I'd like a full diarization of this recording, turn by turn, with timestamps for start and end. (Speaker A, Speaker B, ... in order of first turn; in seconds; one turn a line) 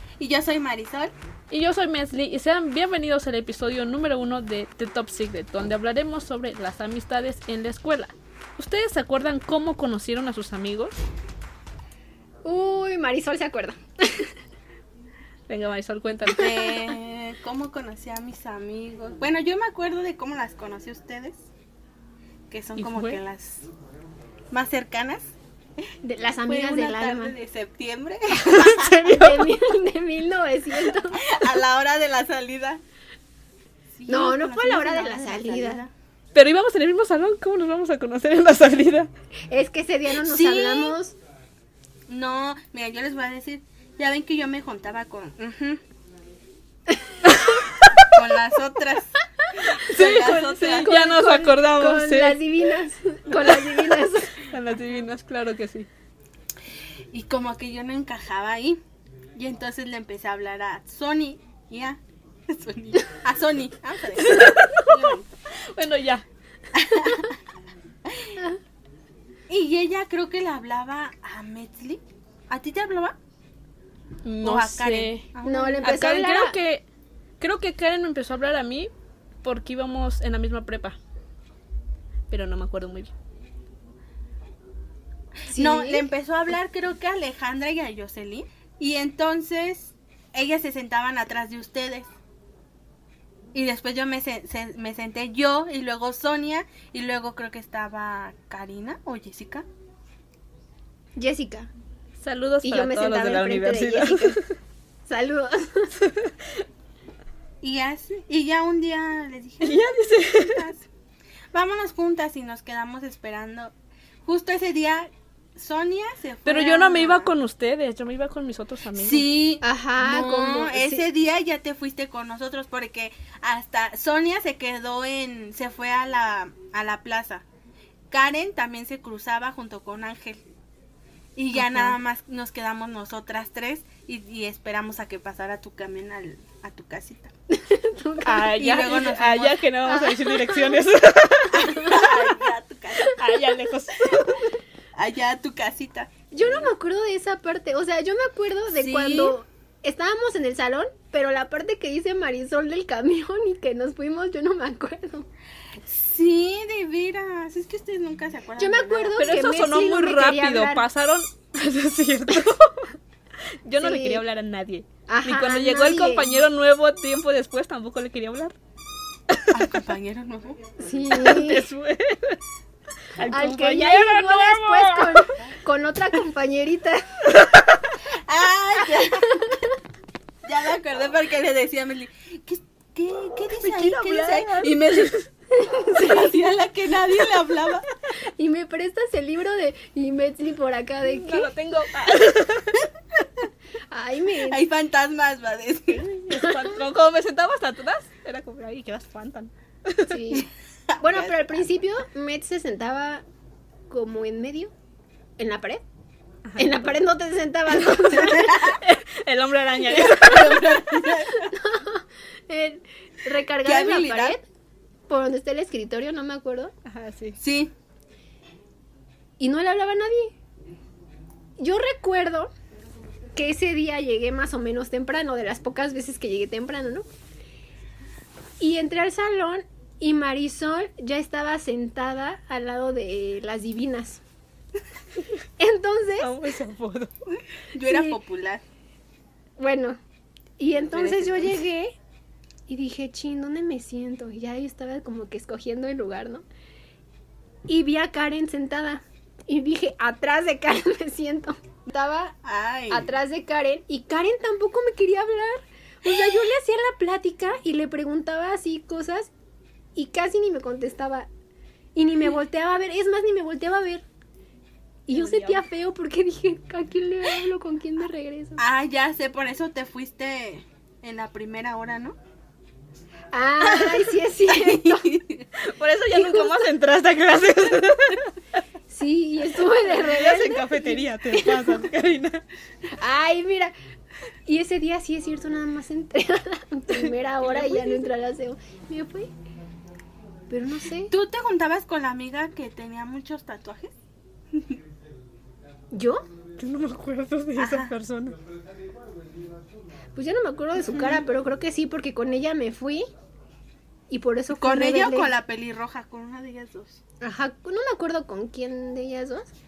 Speaker A: 0.2-1.1
Speaker B: 1.5-11.0
Speaker C: 12.4-14.3
Speaker B: 15.5-16.7
Speaker A: 16.3-21.5
Speaker A: 22.5-23.7
Speaker B: 22.8-23.2
Speaker A: 24.5-25.3
Speaker C: 26.0-27.4
Speaker A: 26.4-28.9
Speaker B: 28.4-29.6
Speaker C: 29.0-31.3
Speaker A: 31.1-32.8
Speaker A: 34.0-35.9
Speaker C: 34.1-35.8
Speaker B: 36.4-39.1
Speaker C: 39.5-41.2
Speaker A: 40.2-41.0
Speaker A: 42.1-45.8
Speaker B: 47.3-48.1
Speaker A: 48.1-49.1
Speaker C: 49.4-54.4
Speaker B: 49.8-52.4
Speaker A: 49.8-51.0
Speaker B: 53.4-53.8
Speaker B: 54.4-55.9
Speaker A: 57.1-58.8
Speaker A: 59.4-65.3
Speaker B: 64.2-65.2
Speaker B: 65.7-66.2
Speaker A: 66.7-67.4
Speaker C: 66.9-67.2
Speaker A: 68.1-68.4
Speaker A: 69.5-73.2
Speaker B: 74.2-75.3
Speaker A: 74.4-76.0
Speaker C: 75.5-76.6
Speaker B: 75.8-76.8
Speaker B: 77.4-78.9
Speaker B: 79.4-81.0
Speaker B: 82.3-83.1
Speaker A: 85.5-92.1
Speaker C: 85.5-86.1
Speaker A: 93.5-99.7
Speaker C: 101.2-101.7
Speaker B: 102.2-104.5
Speaker C: 102.6-104.4
Speaker C: 105.1-105.9
Speaker B: 106.0-106.3
Speaker A: 107.6-110.9
Speaker B: 109.6-110.7
Speaker A: 111.5-117.3
Speaker B: 116.5-119.3
Speaker A: 119.0-127.5
Speaker C: 119.6-121.1
Speaker A: 128.1-130.4
Speaker A: 131.4-137.3
Speaker B: 131.5-132.0
Speaker C: 137.5-138.6
Speaker B: 138.2-142.4
Speaker A: 138.5-139.7
Speaker C: 139.9-140.8
Speaker A: 141.5-143.2
Speaker C: 141.7-142.1
Speaker B: 143.1-144.6
Speaker A: 144.9-146.6
Speaker C: 146.3-155.3
Speaker A: 148.7-149.4
Speaker A: 155.8-159.5
Speaker C: 158.6-160.8
Speaker B: 159.2-162.9
Speaker B: 163.7-168.6
Speaker C: 163.8-164.2
Speaker C: 165.1-166.4
Speaker B: 169.3-169.6
Speaker A: 169.5-170.6
Speaker C: 170.8-171.7
Speaker B: 171.1-172.4
Speaker B: 173.1-175.4
Speaker C: 173.2-177.2
Speaker B: 177.3-177.9
Speaker A: 178.1-179.5
Speaker A: 180.4-185.3
Speaker B: 183.6-185.2
Speaker C: 185.5-186.3
Speaker A: 185.9-187.9
Speaker C: 188.2-191.5
Speaker B: 191.0-192.9
Speaker C: 193.9-194.6
Speaker A: 194.4-196.1
Speaker B: 196.1-200.4
Speaker C: 196.3-196.8
Speaker C: 200.1-200.5
Speaker A: 200.9-201.6
Speaker C: 201.0-203.2
Speaker C: 203.9-204.7
Speaker C: 205.4-205.8
Speaker B: 206.5-207.0
Speaker C: 206.6-208.6
Speaker B: 207.7-210.9
Speaker A: 208.2-208.8
Speaker A: 209.8-211.5
Speaker C: 211.3-214.4
Speaker A: 213.6-214.4
Speaker C: 215.1-216.7
Speaker B: 216.9-217.4
Speaker A: 217.4-217.7
Speaker C: 219.4-220.3
Speaker C: 221.6-222.5
Speaker C: 223.4-227.1
Speaker C: 228.6-234.2
Speaker C: 235.6-236.3
Speaker B: 236.2-237.1
Speaker A: 237.7-238.6
Speaker C: 237.8-238.2
Speaker C: 239.6-240.0
Speaker C: 240.6-242.0
Speaker B: 240.9-241.6
Speaker C: 242.7-246.4
Speaker C: 247.7-252.4
Speaker A: 252.4-253.1
Speaker C: 252.9-259.3
Speaker C: 260.0-261.3
Speaker C: 261.9-264.0
Speaker C: 265.1-268.6
Speaker B: 265.1-265.6
Speaker A: 268.6-272.2
Speaker C: 273.3-275.1
Speaker A: 274.5-275.5
Speaker B: 275.6-278.4
Speaker C: 276.1-276.6
Speaker C: 278.9-281.8
Speaker B: 279.6-282.4
Speaker C: 283.0-283.8
Speaker C: 284.5-289.3
Speaker B: 286.9-288.1
Speaker C: 290.5-291.1
Speaker A: 291.1-293.9
Speaker A: 294.5-294.8
Speaker C: 295.9-296.2
Speaker B: 296.6-298.4
Speaker A: 297.6-297.9
Speaker C: 300.1-303.1
Speaker A: 300.8-301.2
Speaker C: 304.1-305.3
Speaker A: 304.5-307.0
Speaker C: 307.2-309.5